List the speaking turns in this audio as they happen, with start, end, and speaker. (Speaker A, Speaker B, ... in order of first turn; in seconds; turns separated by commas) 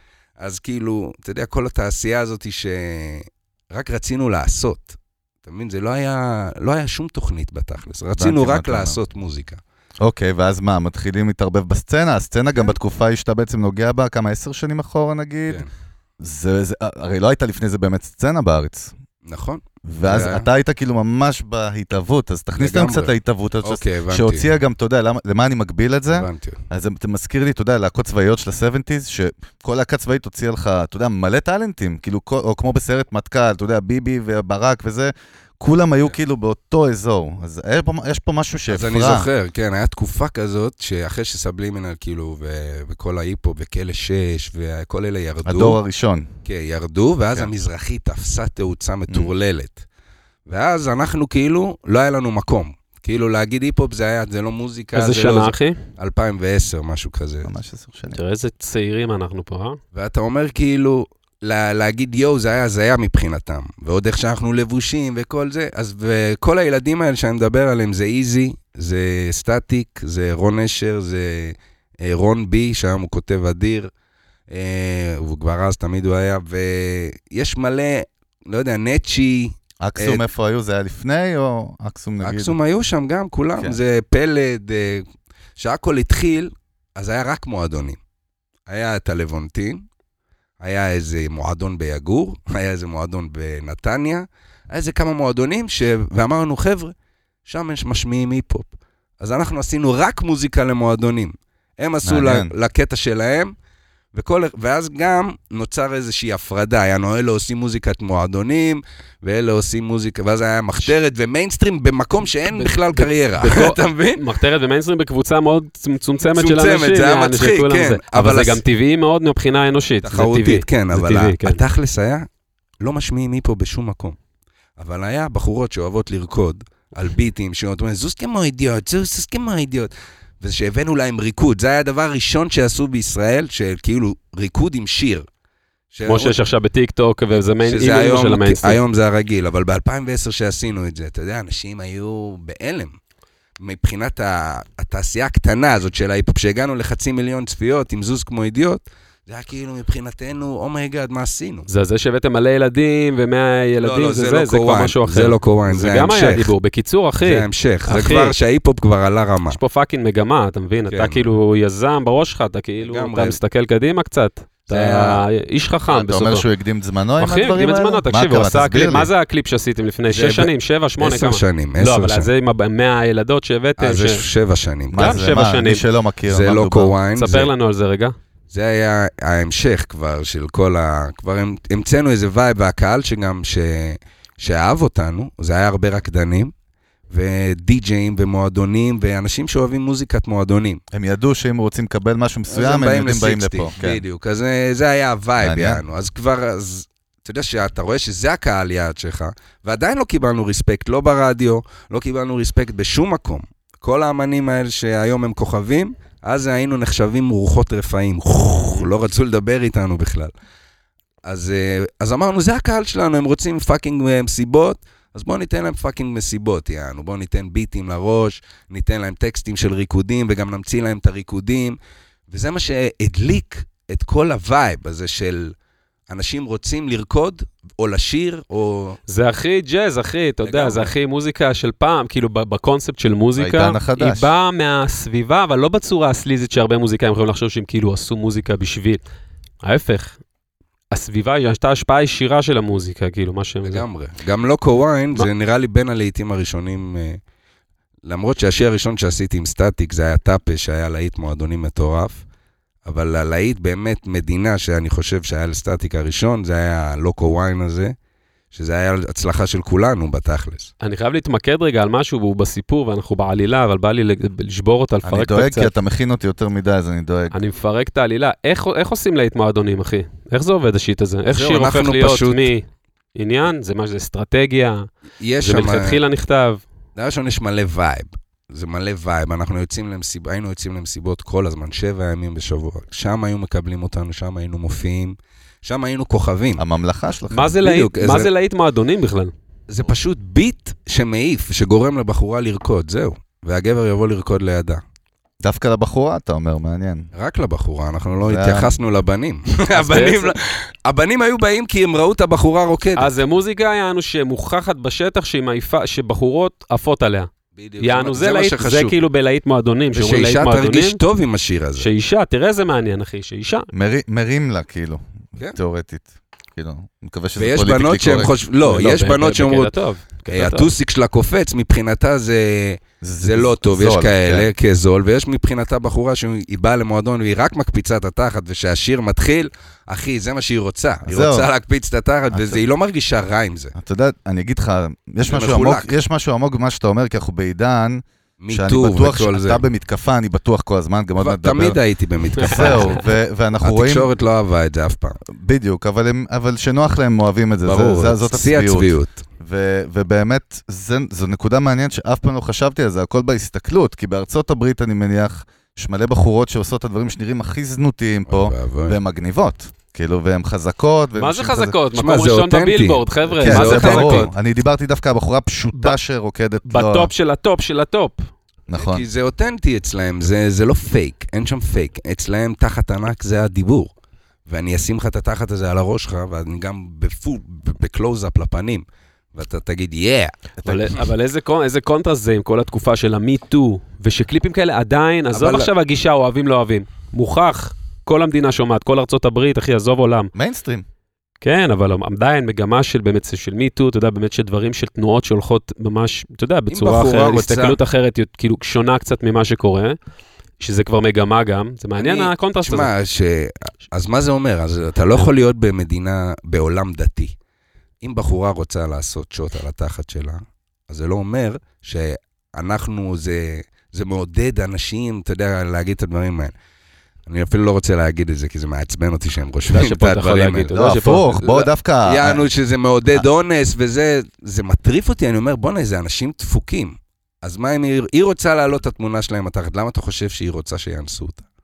Speaker A: 0.4-9.6, Speaker B: 8.2-9.0, Speaker B: 10.0-15.7, Speaker B: 16.2-18.9, Speaker A: 19.2-20.5, Speaker B: 19.9-39.3, Speaker A: 22.6-24.5, Speaker A: 26.1-26.6, Speaker A: 38.7-45.8, Speaker B: 45.5-46.3, Speaker A: 46.5-49.8, Speaker A: 50.5-57.5, Speaker C: 55.0-55.8, Speaker B: 57.4-58.2, Speaker C: 58.1-59.8, Speaker A: 59.9-73.9, Speaker A: 74.5-80.2, Speaker B: 79.8-82.5, Speaker A: 82.2-85.0, Speaker A: 85.6-88.0, Speaker A: 88.7-89.8, Speaker A: 90.6-96.9, Speaker A: 97.5-103.5, Speaker B: 102.0-102.5, Speaker A: 104.1-114.3, Speaker C: 112.5-121.6, Speaker A: 116.3-118.6, Speaker A: 120.0-122.3, Speaker A: 122.8-124.2, Speaker A: 124.8-135.3, Speaker A: 135.9-136.4, Speaker C: 136.1-138.8, Speaker A: 137.6-142.9, Speaker A: 143.6-151.7, Speaker C: 151.7-158.3, Speaker A: 153.8-156.5, Speaker A: 157.2-159.6, Speaker C: 159.5-166.5, Speaker A: 160.9-161.3, Speaker A: 162.8-163.4, Speaker A: 164.7-165.2, Speaker B: 165.9-169.1, Speaker C: 167.2-174.2, Speaker A: 170.1-172.3, Speaker A: 173.8-175.2, Speaker B: 174.9-177.0, Speaker C: 175.0-175.8, Speaker A: 176.3-177.5, Speaker C: 177.2-178.2, Speaker A: 178.5-186.5, Speaker A: 187.1-190.8, Speaker B: 190.9-194.0, Speaker A: 192.5-210.3, Speaker B: 195.4-195.8, Speaker A: 211.2-221.8, Speaker A: 222.3-225.5, Speaker A: 226.1-229.0, Speaker C: 229.1-239.0, Speaker A: 230.4-230.9, Speaker B: 233.4-234.3, Speaker C: 239.6-240.2, Speaker C: 240.9-243.8, Speaker A: 243.6-247.2, Speaker A: 248.1-252.2, Speaker A: 252.9-257.9, Speaker A: 258.5-260.7, Speaker C: 260.8-265.7, Speaker B: 265.0-267.4, Speaker C: 267.3-274.9, Speaker A: 271.3-272.5, Speaker A: 275.2-276.0, Speaker C: 275.4-276.6, Speaker A: 277.0-286.6, Speaker B: 286.6-287.6, Speaker C: 287.3-289.3, Speaker A: 287.6-288.3, Speaker A: 289.7-294.8, Speaker B: 295.4-297.1, Speaker A: 297.1-303.1, Speaker B: 298.2-298.8, Speaker C: 299.7-300.4, Speaker C: 303.0-311.0, Speaker A: 307.6-309.0, Speaker A: 309.9-311.9, Speaker C: 311.8-313.7, Speaker B: 313.7-318.3, Speaker A: 317.4-319.7, Speaker C: 318.6-320.7, Speaker A: 320.3-333.8, Speaker B: 323.0-324.5, Speaker B: 331.1-331.5, Speaker B: 332.3-332.6, Speaker B: 333.8-341.8, Speaker A: 335.3-335.9, Speaker A: 338.4-339.6, Speaker A: 341.2-343.0, Speaker B: 342.4-344.1, Speaker C: 342.4-342.9, Speaker A: 343.6-345.2, Speaker B: 345.3-361.8, Speaker A: 347.7-349.2, Speaker A: 358.3-359.0, Speaker C: 361.2-364.3, Speaker A: 361.9-364.3, Speaker B: 363.4-367.1, Speaker C: 366.7-368.3, Speaker B: 368.7-369.0, Speaker A: 368.8-373.9, Speaker A: 374.5-380.4, Speaker B: 380.6-380.9, Speaker C: 380.6-390.3, Speaker A: 385.3-385.7, Speaker B: 390.4-390.9, Speaker C: 391.4-400.0, Speaker A: 396.7-397.8, Speaker C: 400.6-402.9, Speaker A: 402.0-407.3, Speaker A: 408.0-416.5, Speaker A: 417.3-421.0, Speaker C: 419.7-421.7, Speaker B: 420.7-422.4, Speaker A: 422.1-431.4